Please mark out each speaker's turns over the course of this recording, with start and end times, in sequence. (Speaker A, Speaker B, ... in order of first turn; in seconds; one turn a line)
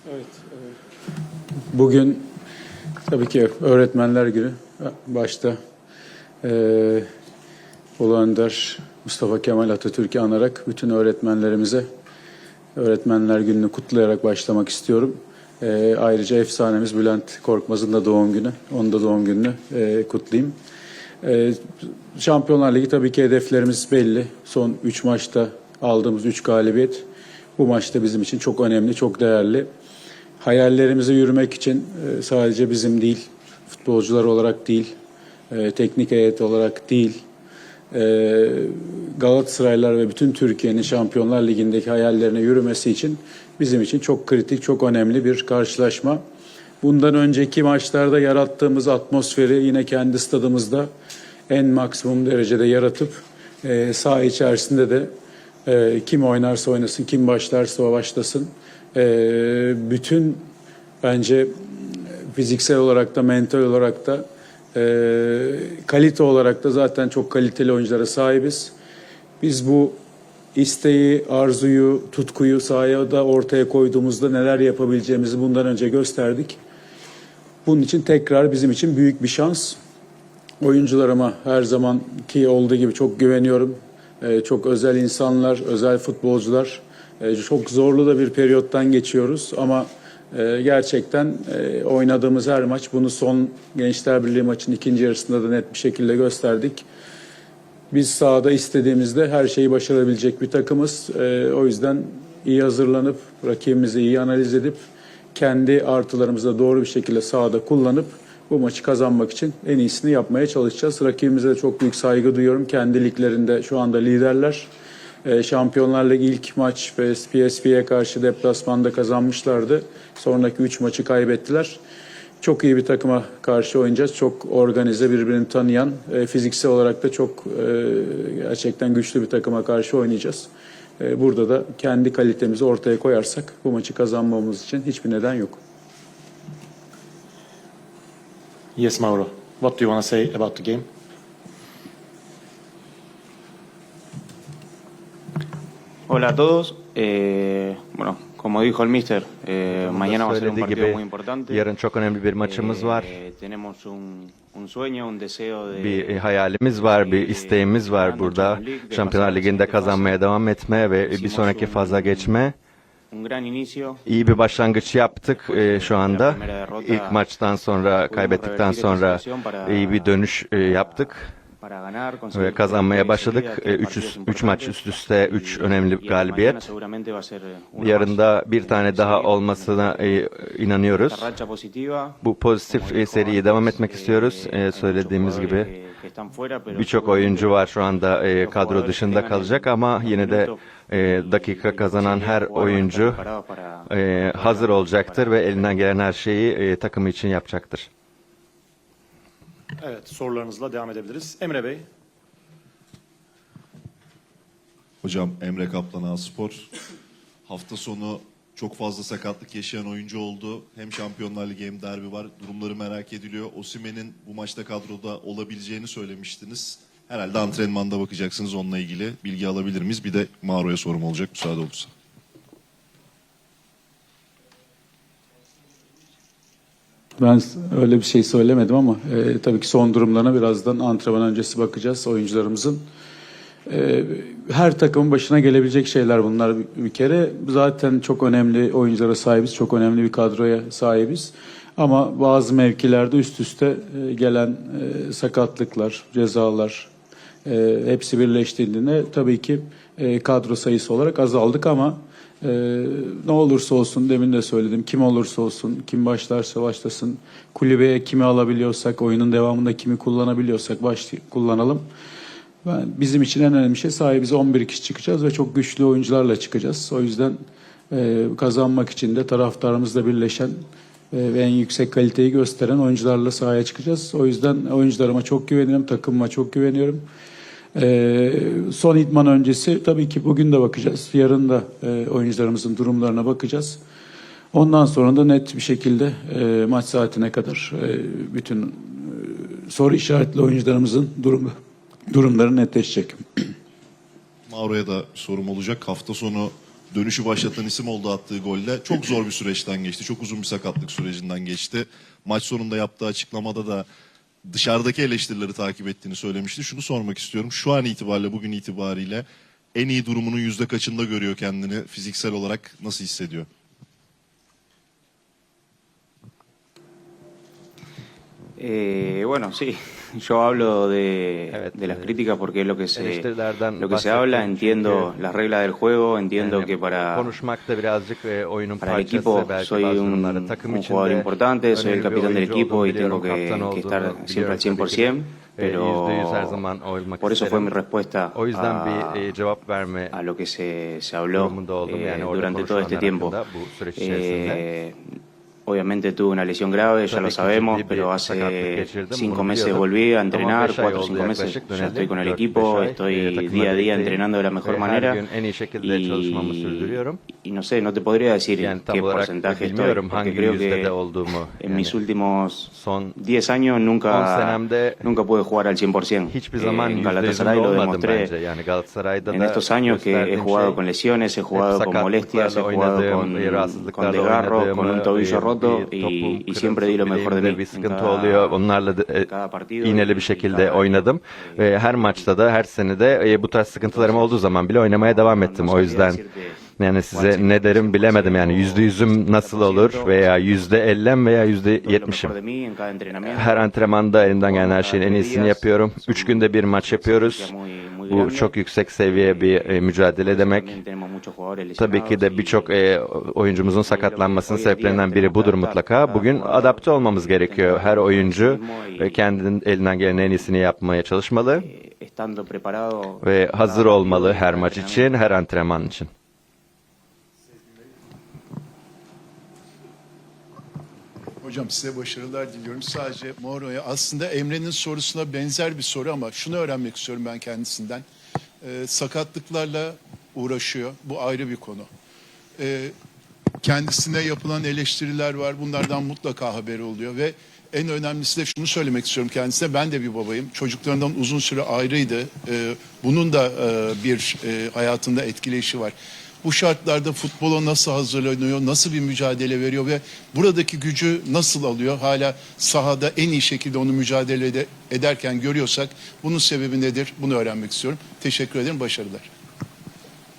Speaker A: 1.7-2.3
Speaker A: 3.1-5.6
Speaker A: 6.4-7.1
Speaker A: 8.0-11.9
Speaker A: 12.8-20.6
Speaker A: 21.2-27.1
Speaker A: 27.6-29.7
Speaker A: 30.4-34.9
Speaker A: 35.5-37.2
Speaker A: 37.9-46.2
Speaker A: 46.8-50.9
Speaker A: 51.5-55.1
Speaker A: 55.7-60.5
Speaker A: 61.0-68.7
Speaker A: 69.4-70.0
Speaker A: 70.5-76.6
Speaker A: 77.7-79.8
Speaker A: 80.6-96.9
Speaker A: 97.9-114.7
Speaker A: 115.2-121.8
Speaker A: 122.4-135.6
Speaker B: 138.8-140.9
Speaker C: 146.1-151.7
Speaker D: 149.8-153.2
Speaker C: 152.4-160.2
Speaker D: 155.7-162.6
Speaker C: 161.1-162.4
Speaker C: 163.1-164.0
Speaker D: 164.1-171.3
Speaker C: 165.3-167.2
Speaker C: 168.1-180.2
Speaker D: 172.3-176.7
Speaker D: 177.8-181.3
Speaker C: 180.8-187.7
Speaker D: 182.2-185.7
Speaker D: 186.7-193.2
Speaker C: 188.4-196.0
Speaker D: 193.9-197.9
Speaker B: 199.8-201.9
Speaker E: 205.0-206.7
Speaker E: 207.5-221.9
Speaker A: 227.2-232.9
Speaker A: 233.7-246.9
Speaker A: 247.4-261.9
Speaker A: 262.6-277.1
Speaker A: 277.7-283.8
Speaker A: 284.5-293.5
Speaker E: 294.5-303.9
Speaker E: 304.5-313.5
Speaker C: 318.6-323.3
Speaker D: 321.5-322.1
Speaker D: 322.9-325.1
Speaker C: 323.8-327.3
Speaker D: 326.4-337.8
Speaker C: 328.8-336.6
Speaker C: 337.2-339.3
Speaker D: 338.4-340.1
Speaker C: 340.1-343.4
Speaker D: 341.3-344.6
Speaker C: 344.0-345.0
Speaker C: 345.7-355.2
Speaker D: 347.1-357.2
Speaker C: 355.8-360.9
Speaker D: 358.6-362.0
Speaker C: 361.6-368.3
Speaker D: 362.7-363.2
Speaker D: 364.1-365.1
Speaker D: 366.3-370.8
Speaker C: 369.2-378.6
Speaker D: 371.5-379.3
Speaker C: 379.2-382.3
Speaker D: 379.8-386.2
Speaker C: 383.7-390.8
Speaker D: 386.8-392.3
Speaker C: 391.8-402.9
Speaker D: 393.2-397.5
Speaker D: 398.1-400.8
Speaker D: 401.8-411.7
Speaker C: 403.8-409.2
Speaker C: 411.6-415.1
Speaker D: 413.2-416.1
Speaker F: 421.4-428.1
Speaker F: 428.6-431.9
Speaker F: 432.6-432.9
Speaker F: 433.6-459.3